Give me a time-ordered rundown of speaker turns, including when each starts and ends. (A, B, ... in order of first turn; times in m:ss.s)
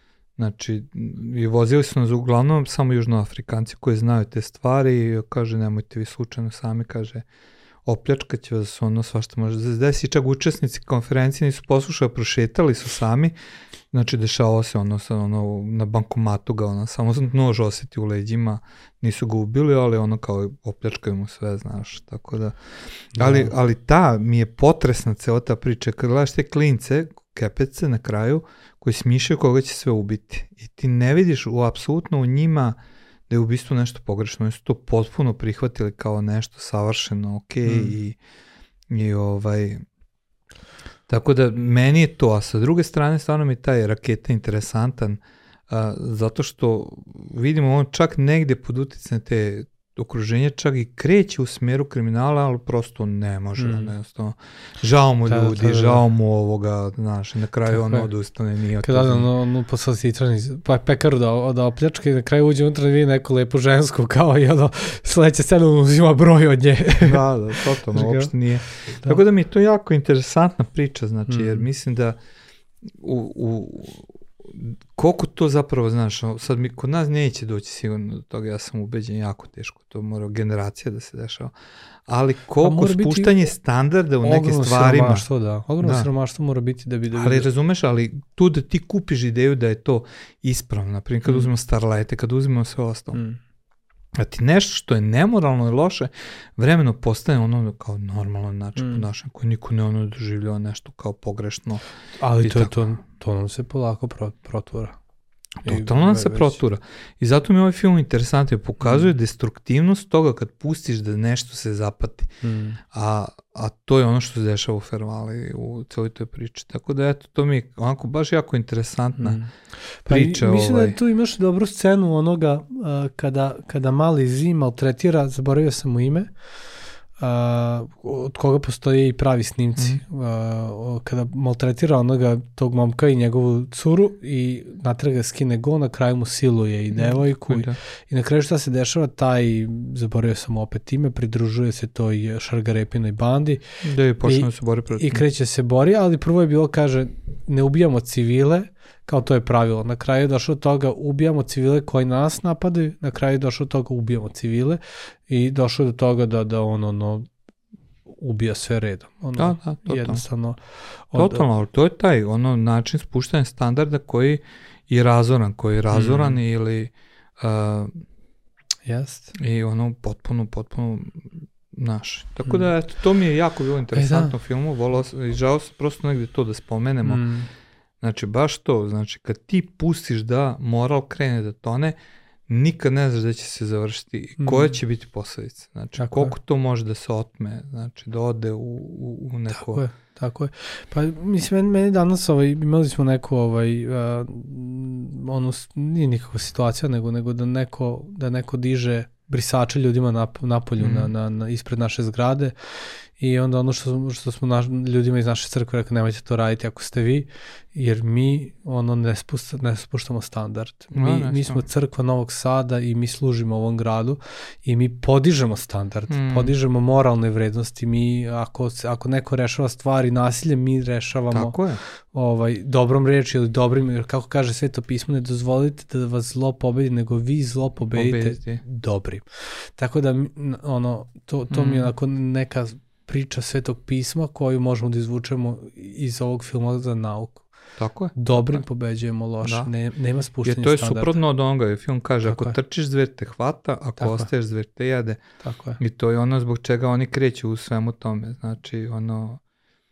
0:00.4-0:07.2 A
0:07.8-0:13.3 A
0:13.9-0:22.6 A
0:23.1-0:23.5 B
0:23.2-0:32.8 A
0:33.3-0:38.2 A
0:37.6-0:38.0 B
0:38.9-0:39.8 A
0:41.1-0:59.3 A
0:53.6-0:53.9 B
0:55.3-0:56.0 B
0:57.7-0:58.1 B
0:58.8-1:09.2 B
1:07.0-1:12.2 A
1:11.3-1:11.7 B
1:13.0-1:21.5 A
1:22.1-1:25.3 A
1:22.6-1:23.5 B
1:24.2-1:27.5 B
1:25.8-1:26.1 A
1:27.1-1:33.2 A
1:31.2-1:31.5 B
1:33.1-1:33.4 B
1:34.2-1:41.8 A
1:38.8-1:39.1 B
1:42.2-1:45.0 B
1:42.4-1:42.7 A
1:45.6-1:52.3 A
1:45.6-1:46.6 B
1:48.8-1:49.1 B
1:52.4-1:52.8 B
1:52.9-1:59.4 A
1:59.2-2:06.3 B
2:00.1-2:01.0 A
2:07.2-2:23.6 B
2:09.8-2:10.0 A
2:16.9-2:17.8 A
2:23.8-2:25.2 A
2:24.2-2:37.3 B
2:38.1-2:41.5 B
2:39.4-2:40.2 A
2:41.1-2:47.9 A
2:45.9-2:46.4 B
2:48.9-2:49.3 B
2:49.4-2:57.2 A
2:53.9-2:54.3 B
2:57.0-2:57.5 B
2:58.0-3:02.0 A
3:02.5-3:09.8 A
3:04.4-3:04.8 B
3:06.0-3:06.3 B
3:09.5-3:22.5 B
3:20.8-3:21.1 A
3:23.2-3:41.6 B
3:30.9-3:31.6 A
3:36.1-3:36.5 A
3:41.3-3:41.8 A
3:42.1-3:57.4 B
3:47.9-3:48.6 A
3:51.5-3:51.9 A
3:57.8-3:58.6 A
3:58.1-4:01.2 B
3:59.4-3:59.7 A
4:00.4-4:05.2 A
4:02.2-4:02.6 B
4:04.0-4:04.3 B
4:05.4-4:05.8 B
4:05.8-4:09.4 A